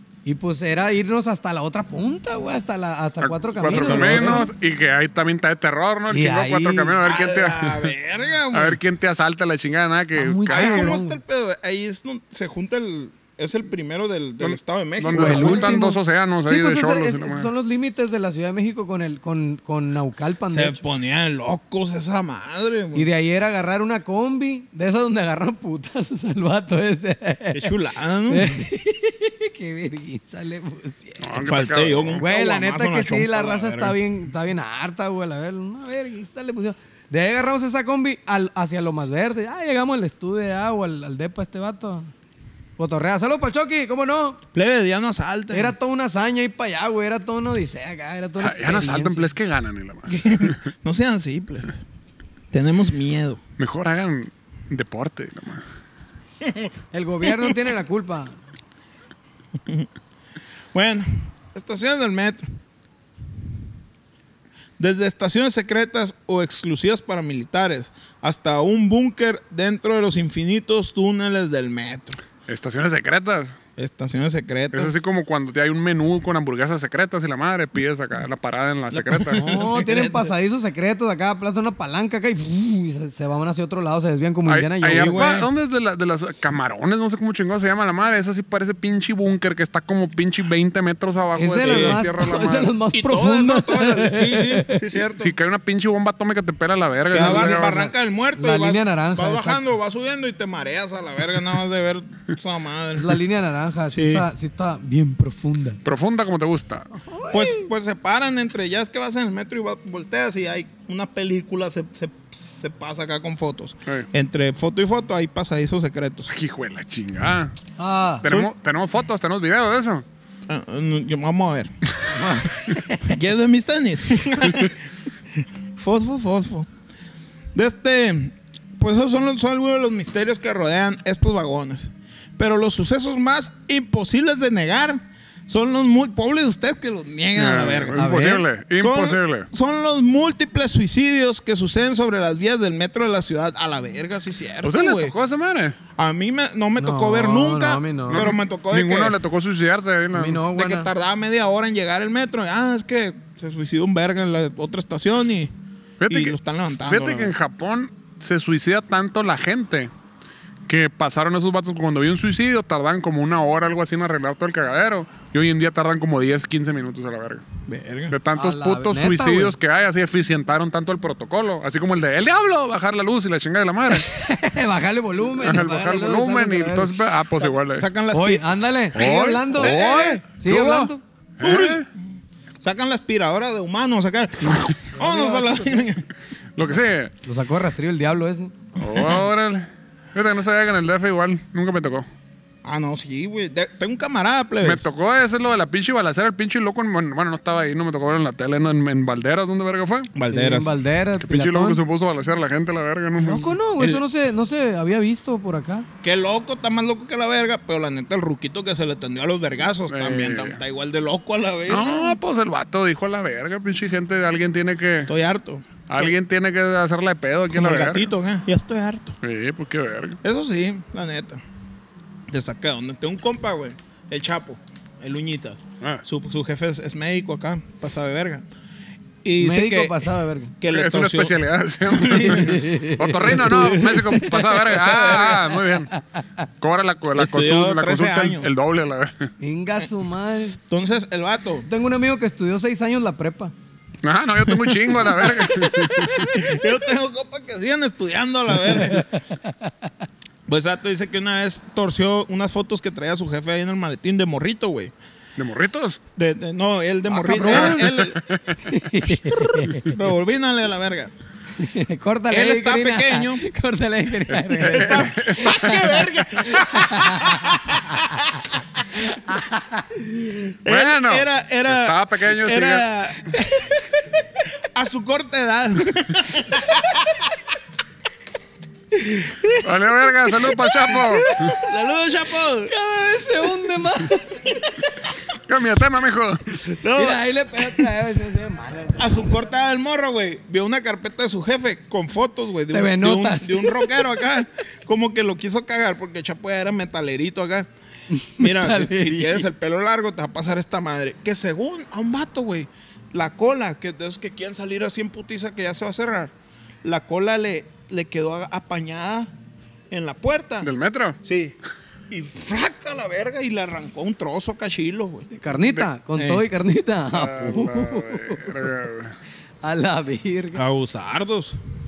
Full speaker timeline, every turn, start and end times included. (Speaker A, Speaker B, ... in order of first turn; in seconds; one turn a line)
Speaker A: 0.2-4.5
Speaker B: 3.2-7.9
Speaker C: 3.7-4.5
Speaker A: 6.1-7.0
Speaker C: 7.0-8.8
Speaker B: 8.5-10.9
Speaker A: 10.2-11.2
Speaker C: 10.5-15.8
Speaker B: 14.4-17.5
Speaker A: 15.1-20.8
Speaker C: 20.5-23.1
Speaker A: 22.9-27.7
Speaker C: 27.5-28.6
Speaker A: 28.3-31.3
Speaker B: 31.2-32.2
Speaker C: 31.4-34.0
Speaker A: 32.2-42.1
Speaker A: 42.8-44.4
Speaker C: 44.5-45.8
Speaker A: 45.5-49.3
Speaker B: 48.4-50.6
Speaker C: 50.1-51.8
Speaker C: 52.5-53.4
Speaker B: 53.6-55.6
Speaker C: 56.4-56.7
Speaker A: 56.9-58.4
Speaker C: 57.3-57.5
Speaker C: 60.7-62.5
Speaker C: 64.8-72.2
Speaker B: 72.5-73.6
Speaker C: 73.8-75.0
Speaker B: 74.7-79.6
Speaker C: 78.9-80.3
Speaker A: 79.4-85.2
Speaker B: 84.5-92.7
Speaker C: 84.9-85.5
Speaker A: 91.4-94.8
Speaker C: 91.6-92.0
Speaker C: 92.9-95.3
Speaker B: 95.2-97.9
Speaker C: 97.1-103.2
Speaker A: 97.2-99.6
Speaker A: 103.0-105.8
Speaker C: 103.9-104.3
Speaker B: 105.8-106.9
Speaker A: 107.1-107.6
Speaker C: 107.3-116.3
Speaker B: 116.3-117.5
Speaker A: 117.8-118.2
Speaker B: 118.2-120.0
Speaker C: 118.2-118.5
Speaker C: 120.5-121.7
Speaker A: 122.1-123.1
Speaker C: 123.0-124.8
Speaker C: 125.4-126.7
Speaker C: 127.5-138.0
Speaker B: 137.3-139.5
Speaker A: 138.0-138.4
Speaker C: 138.8-145.1
Speaker B: 144.6-145.8
Speaker C: 146.0-149.2
Speaker A: 146.8-148.3
Speaker B: 148.1-150.4
Speaker A: 150.1-150.9
Speaker C: 150.5-155.5
Speaker B: 156.0-159.9
Speaker C: 156.1-157.3
Speaker B: 160.7-167.4
Speaker C: 167.7-168.2
Speaker B: 168.1-174.1
Speaker A: 168.3-169.6
Speaker A: 173.9-176.9
Speaker B: 175.3-177.9
Speaker C: 177.7-178.5
Speaker A: 178.1-181.0
Speaker B: 178.9-181.9
Speaker C: 179.6-180.2
Speaker C: 181.4-181.9
Speaker C: 182.6-186.1
Speaker A: 185.0-185.9
Speaker B: 186.6-187.1
Speaker A: 187.2-188.6
Speaker B: 188.8-192.1
Speaker C: 192.6-194.9
Speaker B: 194.6-200.1
Speaker C: 200.1-200.7
Speaker A: 200.3-201.8
Speaker B: 201.2-203.5
Speaker A: 203.2-205.9
Speaker C: 203.2-204.0
Speaker C: 206.0-212.2
Speaker B: 209.9-210.6
Speaker B: 211.7-215.1
Speaker C: 215.1-216.1
Speaker B: 215.9-218.1
Speaker C: 217.5-219.2
Speaker B: 219.2-220.2
Speaker C: 220.2-221.4
Speaker C: 222.3-228.5
Speaker C: 229.2-230.1
Speaker A: 229.4-230.5
Speaker C: 230.6-231.4
Speaker B: 230.7-235.9
Speaker C: 231.9-232.6
Speaker A: 232.2-235.4
Speaker C: 234.8-235.4
Speaker B: 236.6-239.3
Speaker C: 237.2-238.5
Speaker A: 239.4-240.6
Speaker C: 240.7-241.7
Speaker A: 241.7-243.5
Speaker B: 244.0-246.4
Speaker C: 244.4-249.1
Speaker C: 250.5-254.9
Speaker B: 255.4-256.0
Speaker C: 256.2-258.2
Speaker A: 257.1-257.8
Speaker B: 257.2-258.6
Speaker A: 258.6-259.9
Speaker C: 259.3-261.1
Speaker A: 261.6-267.9
Speaker C: 262.3-263.4
Speaker B: 264.3-266.0
Speaker C: 264.6-268.5
Speaker A: 269.0-270.0
Speaker C: 270.6-273.9
Speaker B: 270.7-272.9
Speaker C: 274.8-277.4
Speaker A: 278.9-279.5
Speaker B: 279.6-281.4
Speaker C: 280.5-282.7
Speaker A: 280.9-281.7
Speaker A: 282.6-284.7
Speaker B: 285.3-286.6
Speaker C: 286.6-287.9
Speaker A: 286.9-289.3
Speaker C: 289.0-297.7
Speaker A: 292.7-294.1
Speaker A: 298.1-299.5
Speaker C: 298.4-306.3
Speaker C: 306.8-309.3
Speaker C: 309.9-310.7
Speaker B: 310.6-311.2
Speaker C: 311.2-311.6
Speaker C: 312.1-315.3
Speaker A: 315.3-318.7
Speaker C: 316.2-316.4
Speaker B: 317.1-319.2
Speaker A: 319.6-320.6
Speaker C: 320.6-321.6